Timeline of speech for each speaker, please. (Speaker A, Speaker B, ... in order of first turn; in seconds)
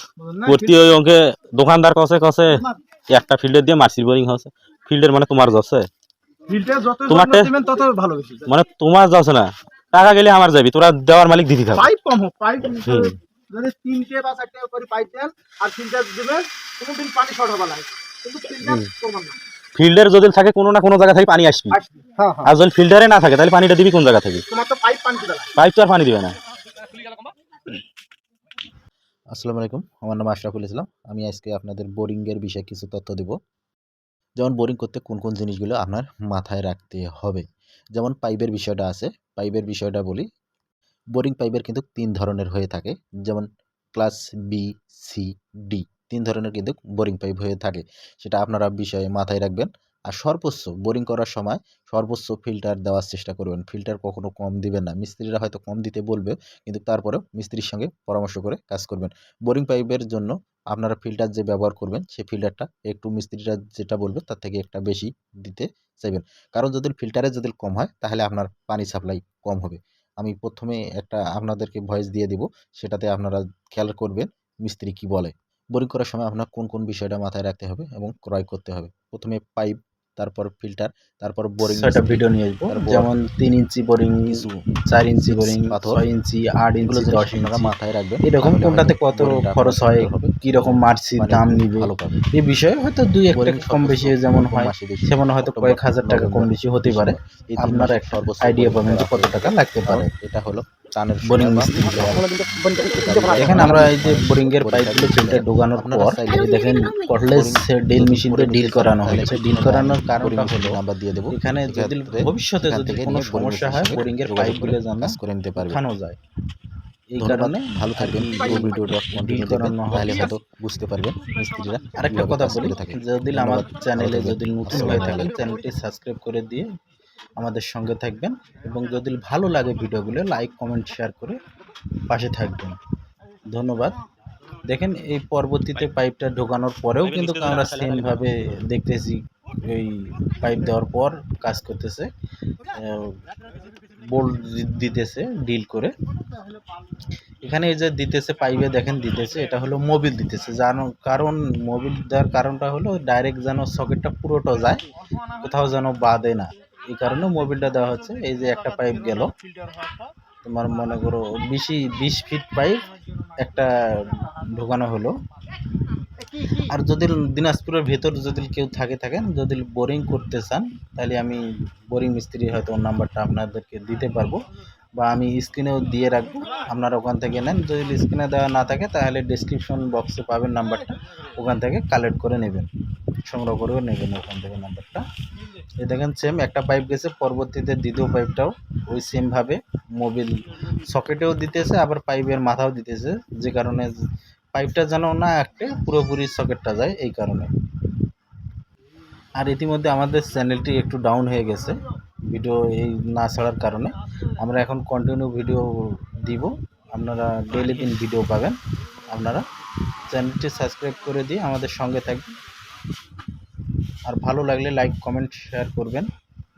Speaker A: 0.2-0.8, 2.5-2.7, 6.5-8.5, 11.7-19.4, 21.7-22.5, 24.5-25.5, 101.9-103.9, 118.4-118.9, 121.2-121.8, 124.9-125.7
Speaker B: 0.5-5.9, 7.1-7.5, 8.5-11.9, 12.8-13.1, 18.6-18.9, 19.8-21.8, 22.4-24.4, 25.6-26.4, 137.0-138.2, 207.5-207.9
Speaker C: 29.3-33.4, 34.4-40.3, 41.1-83.1, 84.3-84.7, 85.2-86.0, 86.8-92.2, 93.3-106.5, 107.2-115.8, 117.2-125.4
Speaker D: 81.6-100.1, 101.2-102.3, 103.2-116.2, 117.1-120.4, 122.0-126.7, 127.4-131.4, 132.1-132.8, 133.5-134.0, 134.7-142.1, 142.7-143.2, 144.0-145.9, 147.4-159.3, 160.4-162.9, 163.4-165.2, 166.5-174.4, 175.0-182.7, 183.2-185.1, 185.8-194.0, 194.5-197.5, 199.4-209.5, 210.1-212.3, 214.1-216.1